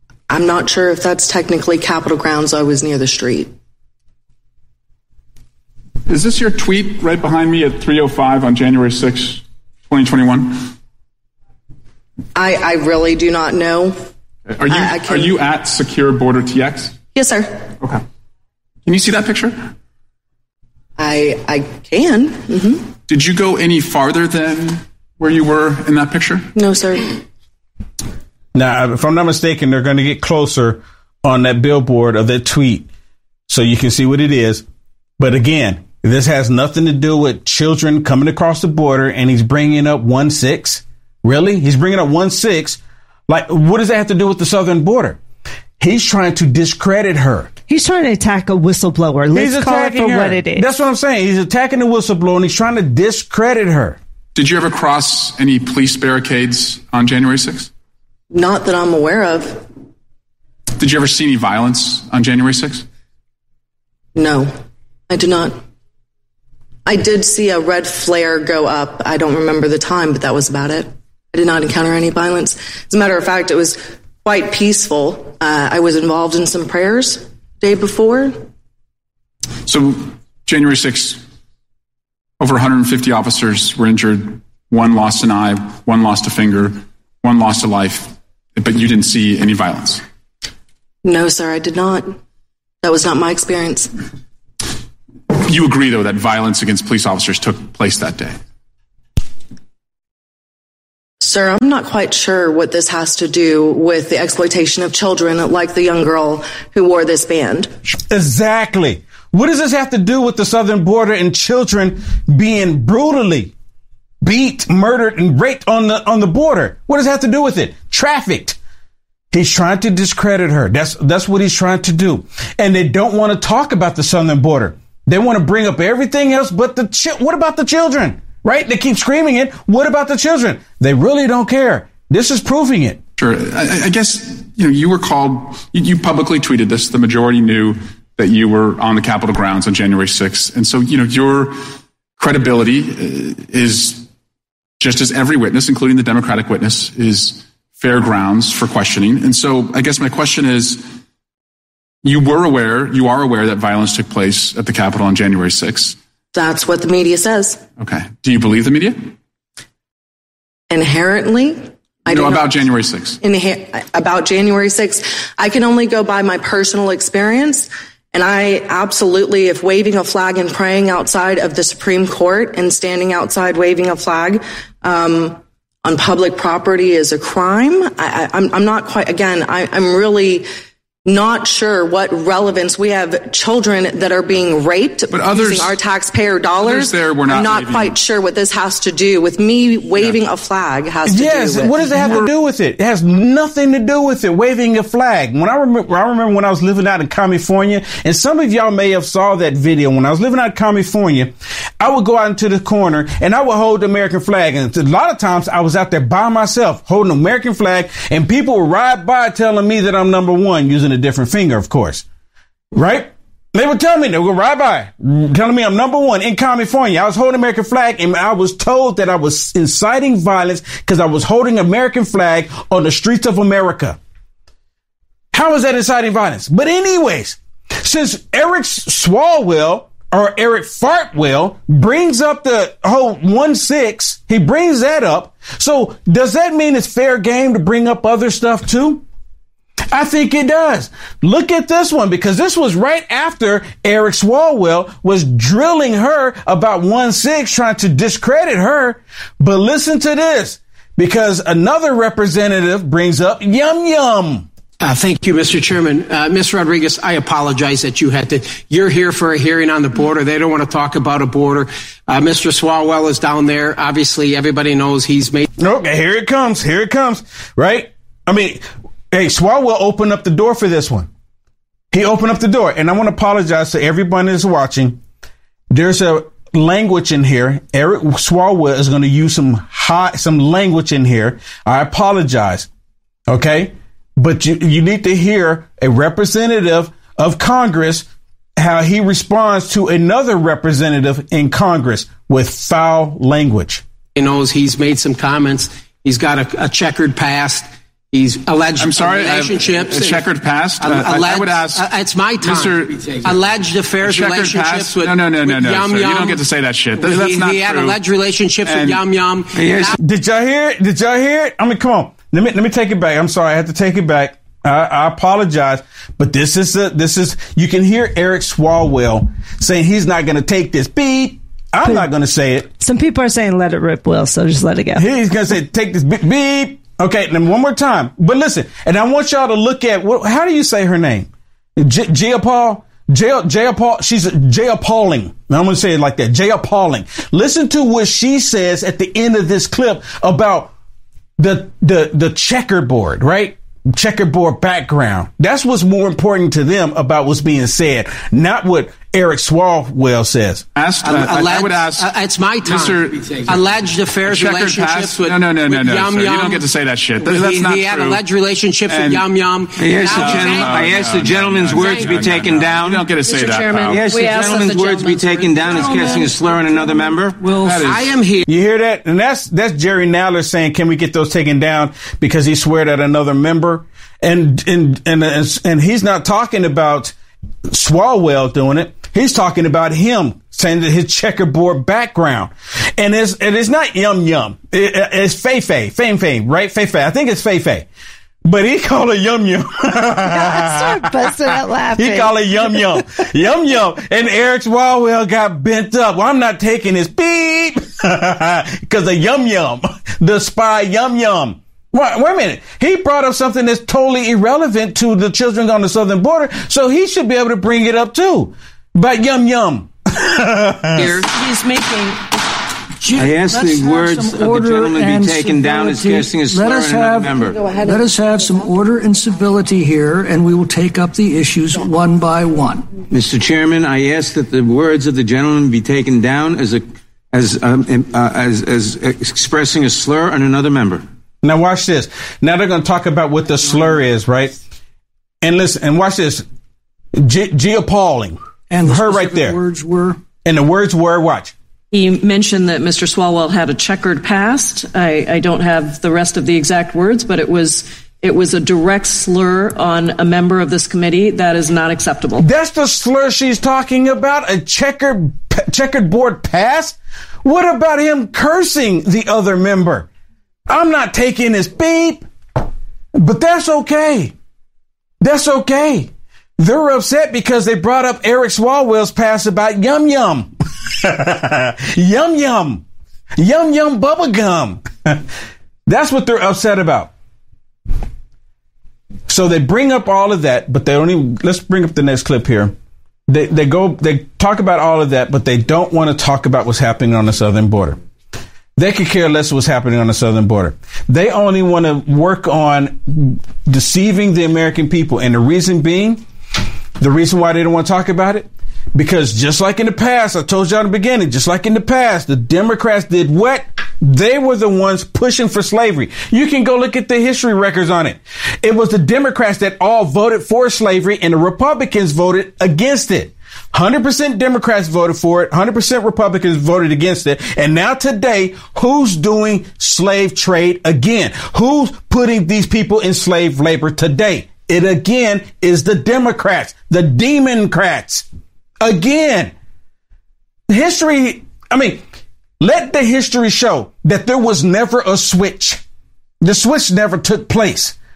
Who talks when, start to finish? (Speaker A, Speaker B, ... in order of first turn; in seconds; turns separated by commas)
Speaker A: 0.3-3.5, Speaker B: 6.1-10.7, Speaker A: 12.4-14.0, Speaker B: 14.5-17.0, Speaker A: 14.7-15.4, Speaker A: 17.1-17.5, Speaker B: 18.9-19.7, Speaker A: 21.0-22.9, Speaker B: 23.1-26.5, Speaker A: 26.5-27.2, Speaker C: 28.5-32.9, Speaker C: 33.5-34.6, Speaker C: 35.2-45.2, Speaker C: 45.8-47.5, Speaker D: 47.7-50.7, Speaker C: 49.3-54.0, Speaker B: 54.4-57.7, Speaker A: 58.3-59.6, Speaker B: 60.8-62.9, Speaker A: 64.2-64.5, Speaker A: 65.1-65.6, Speaker A: 66.9-78.4, Speaker B: 79.7-81.2, Speaker B: 82.4-90.0, Speaker A: 91.0-92.1, Speaker A: 92.8-93.9, Speaker B: 95.5-98.4, Speaker A: 101.2-107.7, Speaker C: 108.1-113.5, Speaker C: 114.2-118.6, Speaker C: 119.3-133.0, Speaker B: 133.2-141.6, Speaker B: 142.2-144.1, Speaker B: 144.8-150.9, Speaker B: 152.0-156.0, Speaker A: 156.3-157.6, Speaker B: 157.8-159.1, Speaker A: 160.7-180.4, Speaker B: 162.1-163.2, Speaker A: 181.1-192.3, Speaker B: 185.1-185.8, Speaker B: 186.6-188.0, Speaker C: 191.1-212.1, Speaker B: 192.0-192.3, Speaker C: 212.7-224.0, Speaker C: 225.3-239.0, Speaker C: 239.9-254.5, Speaker E: 254.8-265.5, Speaker C: 265.6-271.1, Speaker C: 271.9-275.0, Speaker C: 275.7-282.7, Speaker C: 283.3-288.1, Speaker C: 288.6-293.8, Speaker E: 294.1-306.4, Speaker B: 298.8-308.0, Speaker E: 307.0-310.0, Speaker B: 308.6-309.0, Speaker F: 309.6-309.9, Speaker C: 310.0-322.7, Speaker D: 321.8-322.1, Speaker D: 322.8-325.1, Speaker C: 325.0-340.7, Speaker C: 341.4-350.6, Speaker B: 350.8-352.1, Speaker E: 351.0-356.7, Speaker B: 352.6-358.2, Speaker E: 357.2-361.0, Speaker B: 358.9-359.3, Speaker F: 359.8-363.1, Speaker B: 359.8-364.1, Speaker E: 361.7-362.3, Speaker E: 363.2-366.3, Speaker F: 363.8-367.4, Speaker G: 365.6-368.1, Speaker B: 367.6-368.1, Speaker E: 367.8-368.4, Speaker C: 368.5-377.1, Speaker C: 377.7-387.9, Speaker C: 388.4-411.1, Speaker D: 390.2-393.1, Speaker H: 411.0-412.3, Speaker G: 413.0-423.0, Speaker F: 413.2-417.6, Speaker F: 423.1-431.0, Speaker C: 431.4-434.6, Speaker C: 435.4-436.4, Speaker C: 437.1-439.6, Speaker G: 438.7-440.2, Speaker C: 440.4-441.5, Speaker H: 441.9-452.5, Speaker C: 452.4-460.1, Speaker C: 460.7-462.3, Speaker C: 463.1-464.3, Speaker C: 465.2-472.8, Speaker C: 473.4-475.2, Speaker C: 475.9-477.1, Speaker C: 479.3-482.8, Speaker C: 483.3-488.0, Speaker C: 488.8-496.2, Speaker C: 497.0-528.3, Speaker C: 528.8-529.5, Speaker C: 530.7-532.0, Speaker C: 532.6-535.8, Speaker C: 536.4-538.0